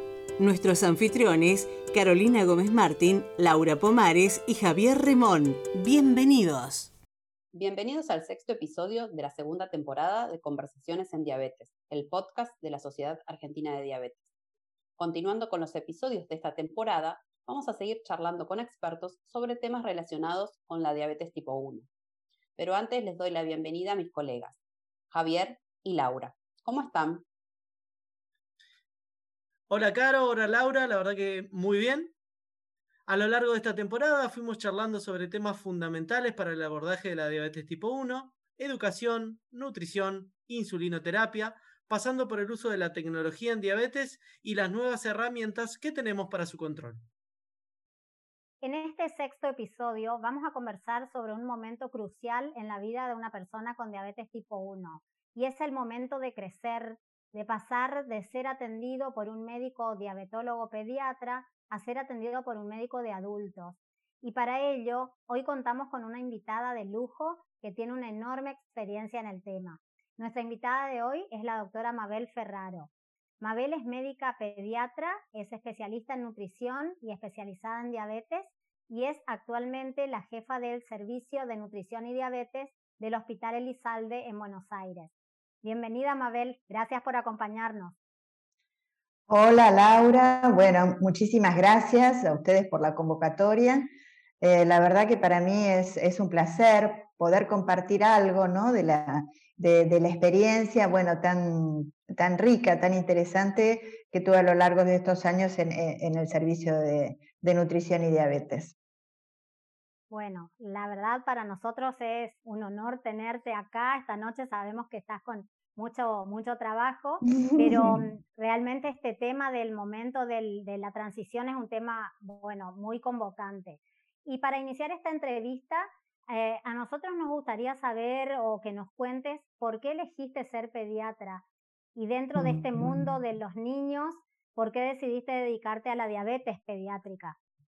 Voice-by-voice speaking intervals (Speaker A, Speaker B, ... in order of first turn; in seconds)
Speaker A: 0.4-6.9
Speaker B: 7.5-14.3, 15.0-21.9, 22.6-24.6, 25.1-27.2
Speaker C: 29.7-32.1, 33.1-47.0
Speaker D: 48.6-72.9, 73.4-88.0, 110.1-131.4, 132.0-137.4
Speaker E: 89.3-93.9, 94.4-108.8, 117.4-118.0, 132.4-133.1